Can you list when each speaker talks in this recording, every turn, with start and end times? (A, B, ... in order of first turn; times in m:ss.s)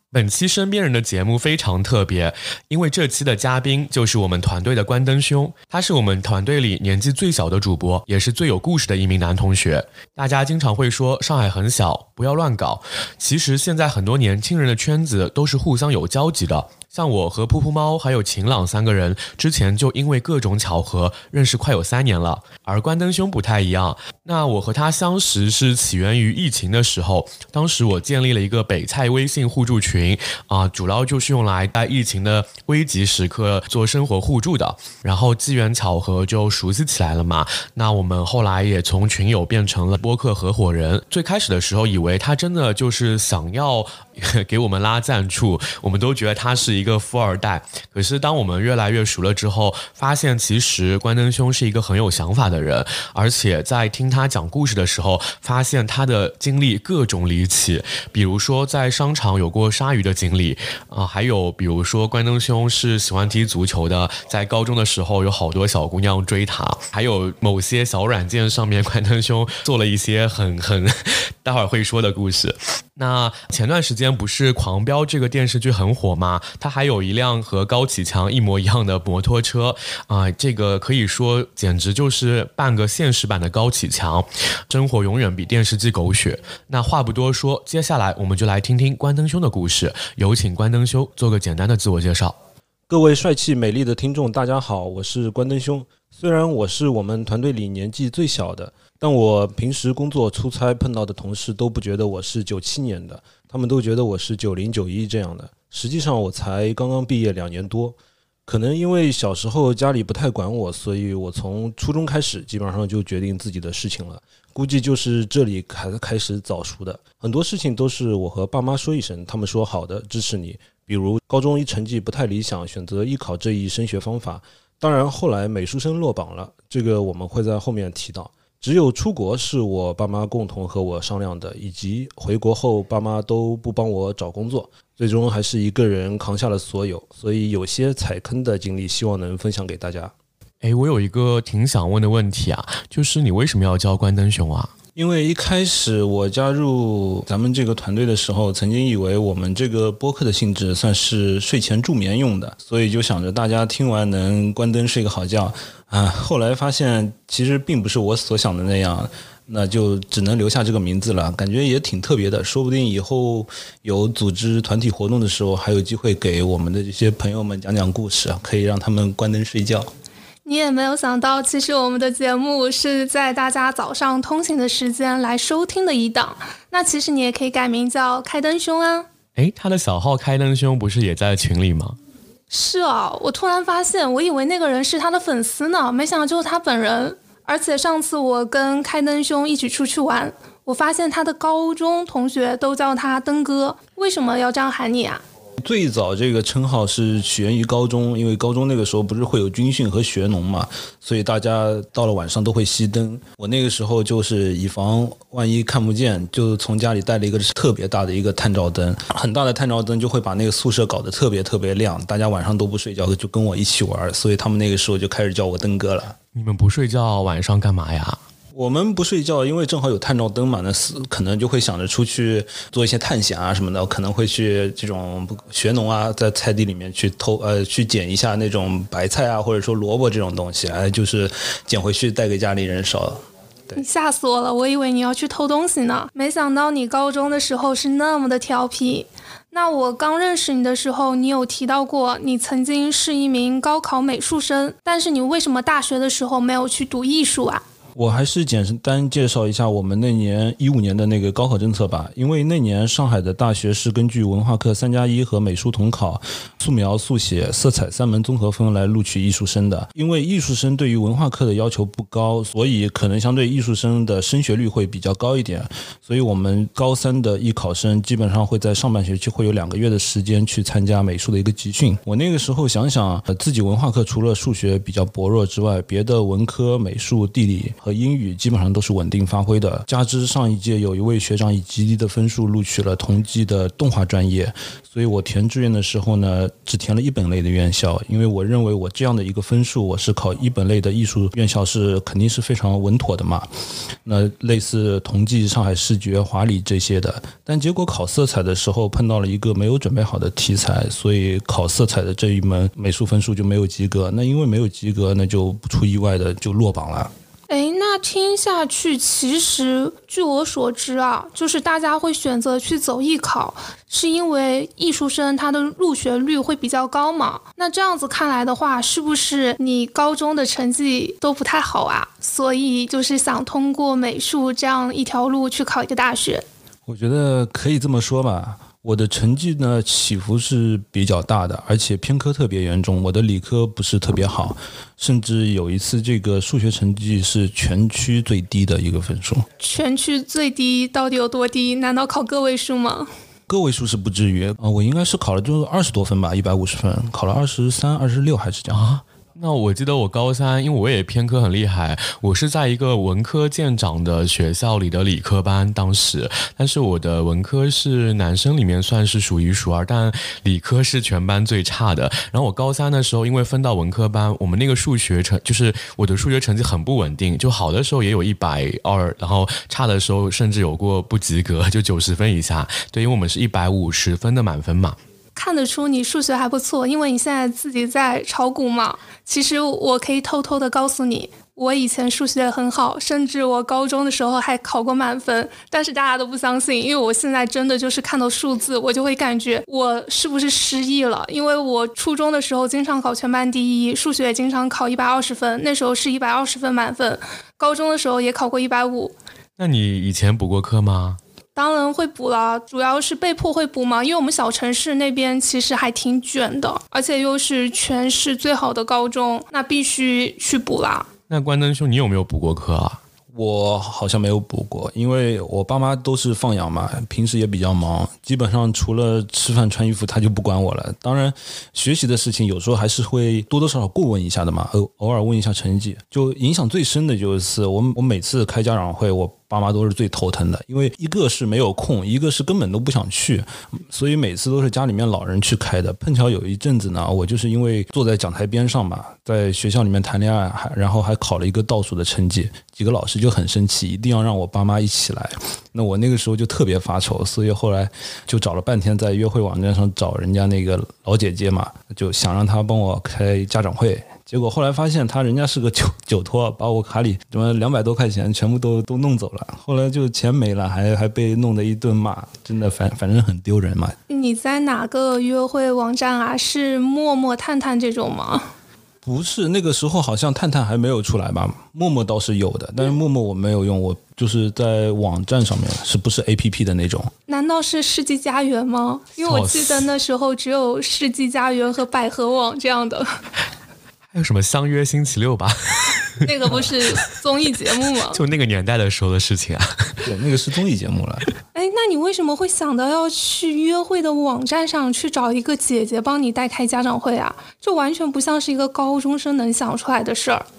0:00.1-1:32.4 A
1:32.9-1:48.0 B
1:48.5-2:20.1 B
2:20.6-2:24.7 A
2:25.0-2:49.9 B
2:50.4-2:59.1 C
2:59.4-3:02.0 A
3:02.5-3:15.2 C
3:15.6-3:36.2 B
3:36.3-3:38.2 A
3:38.5-3:53.8 B
3:53.7-4:07.6 C
4:08.0-4:53.5 B
4:54.0-5:07.1 B
5:07.5-5:26.4 C
5:26.9-5:39.4 B
5:39.6-5:43.1 C
5:43.5-5:48.9 B
5:48.7-6:15.0 A
6:15.4-6:39.1 C
6:39.6-6:41.2 A
6:41.6-6:51.1 C
6:51.3-6:53.0 A
6:53.3-7:44.0 B
7:44.1-7:48.5 C
7:49.0-7:57.1 B
7:57.3-8:03.2 C
7:59.2-7:59.8 A
8:04.1-8:06.7 A
8:06.2-8:08.2 C
8:08.1-8:10.0 A
8:10.0-8:11.3 B
8:11.5-8:20.4 C